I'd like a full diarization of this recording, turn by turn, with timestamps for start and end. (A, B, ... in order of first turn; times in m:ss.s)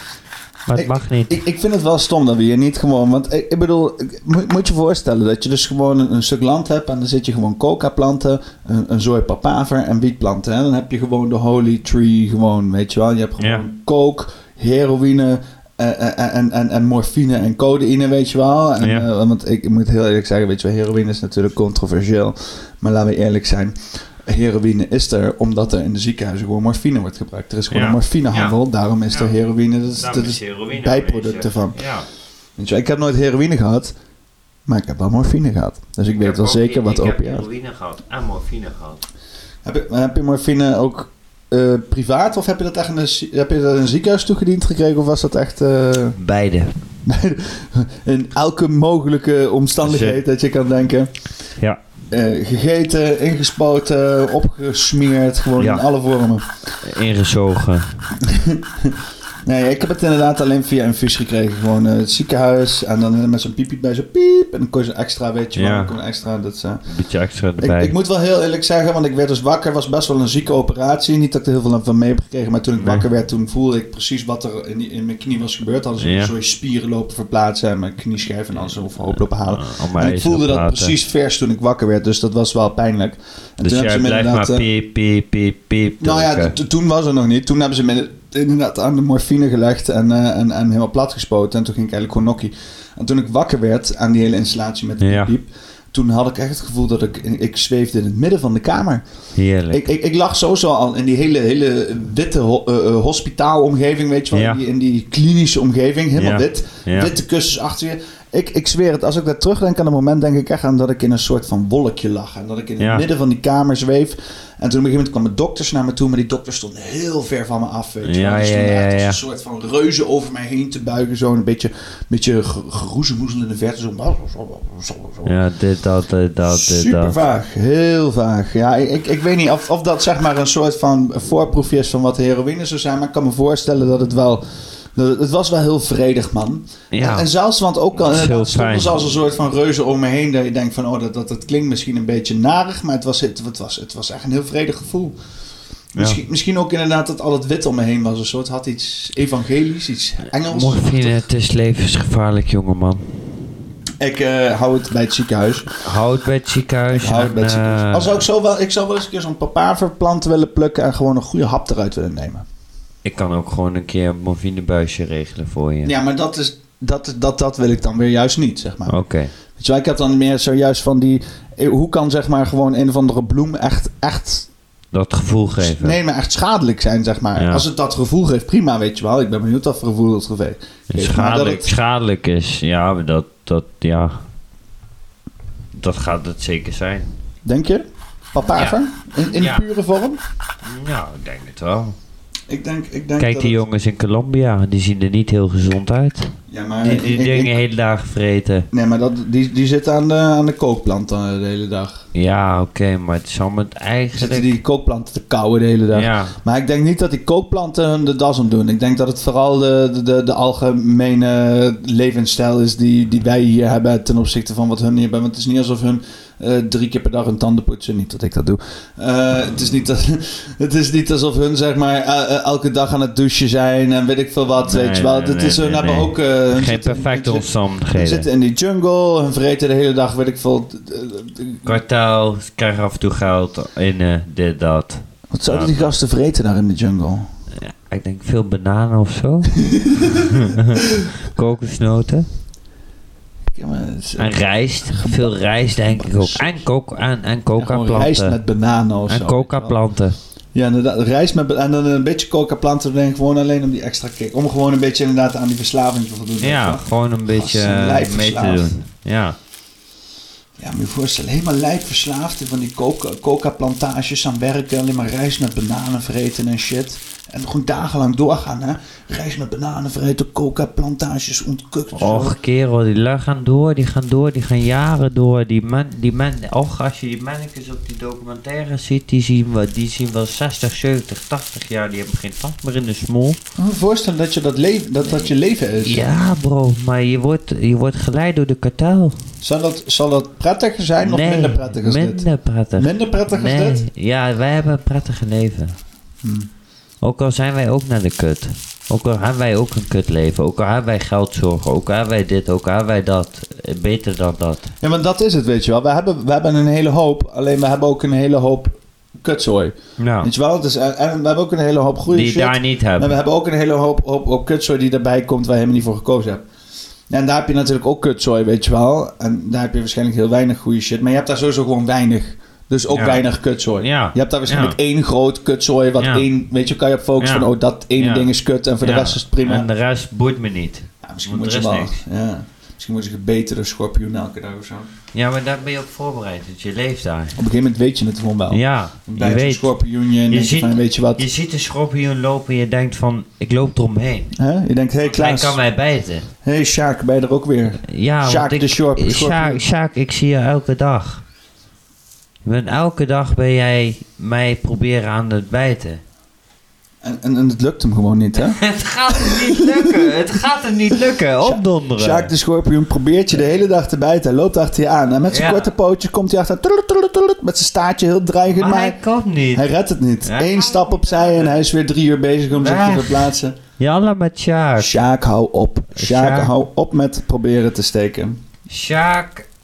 0:00.6-0:01.4 A
0:00.7-0:31.8 B
0:13.4-0:13.6 A
0:18.8-0:19.1 A
0:27.7-0:28.6 A
0:29.1-0:29.4 A
0:30.0-0:32.1 A
0:32.6-0:33.9 B
0:34.6-0:37.4 B
0:36.2-0:39.0 A
0:39.6-0:46.2 B
0:46.2-0:46.7 A
0:47.0-0:51.1 B
0:49.8-0:50.2 A
0:52.1-0:56.5 B
0:55.6-0:55.8 A
0:56.8-0:58.0 A
0:58.2-1:06.8 B
1:05.6-1:06.0 A
1:06.9-1:08.0 A
1:07.6-1:24.7 B
1:12.8-1:13.0 A
1:16.0-1:16.3 A
1:18.6-1:21.0 A
1:23.6-1:26.6 A
1:26.0-1:39.0 B
1:35.0-1:35.3 A
1:39.3-1:39.8 A
1:39.7-2:05.4 B
1:44.3-1:44.6 A
1:46.2-1:47.1 A
1:52.8-1:53.0 A
1:58.0-1:59.2 A
2:05.2-2:07.2 A
2:06.4-2:25.2 B
2:16.9-2:17.3 A
2:18.0-2:18.9 A
2:25.9-2:31.2 B
2:26.0-2:26.2 A
2:30.3-2:33.2 A
2:34.0-2:35.7 B
2:35.8-2:38.2 A
2:36.9-2:42.4 B
2:43.0-2:45.9 A
2:45.8-2:49.0 B
2:48.9-2:49.3 A
2:49.6-2:54.5 B
2:54.9-2:56.0 A
2:55.6-3:01.7 B
2:57.4-2:57.6 A
3:00.9-3:04.2 A
3:05.7-3:07.1 A
3:07.4-3:10.2 B
3:08.5-3:08.8 A
3:09.4-3:09.6 A
3:10.6-3:12.0 A
3:12.5-3:13.6 B
3:13.2-3:18.7 A
3:16.5-3:17.6 B
3:18.7-3:22.0 B
3:22.1-3:24.5 A
3:24.1-3:51.8 B
3:25.9-3:26.4 A
3:44.6-3:48.3 A
3:51.6-3:55.9 A
3:55.3-3:57.3 B
3:57.5-4:02.3 A
3:59.6-4:00.2 B
4:03.5-4:06.6 B
4:04.2-4:08.4 A
4:07.6-4:09.7 B
4:09.1-4:10.2 A
4:10.5-4:18.7 B
4:16.4-4:19.4 A
4:20.6-4:32.4 B
4:31.9-4:43.4 A
4:43.6-4:46.1 B
4:45.0-4:45.3 A
4:45.8-4:49.2 A
4:49.4-4:53.8 B
4:51.0-4:55.8 A
4:56.2-4:56.5 B
4:57.0-5:04.7 A
5:04.8-5:16.4 B
5:10.0-5:10.3 A
5:12.1-5:13.2 A
5:17.1-5:29.7 B
5:22.9-5:23.2 A
5:23.8-5:24.8 A
5:26.0-5:26.3 A
5:27.2-5:32.0 A
5:31.0-5:34.9 B
5:35.1-5:37.4 A
5:37.4-5:41.2 B
5:38.5-5:39.7 A
5:40.3-5:44.3 A
5:44.4-5:45.6 B
5:45.0-5:46.3 A
5:46.4-5:49.6 B
5:47.8-5:51.2 A
5:52.4-5:56.0 A
5:57.0-5:58.6 B
5:58.4-6:02.3 A
5:59.1-6:00.1 B
6:00.9-6:09.0 B
6:05.3-6:05.7 A
6:08.5-6:09.7 A
6:09.5-6:13.6 B
6:10.2-6:11.3 A
6:12.5-6:15.0 A
6:14.8-6:18.4 B
6:15.9-6:16.5 A
6:18.7-6:19.4 A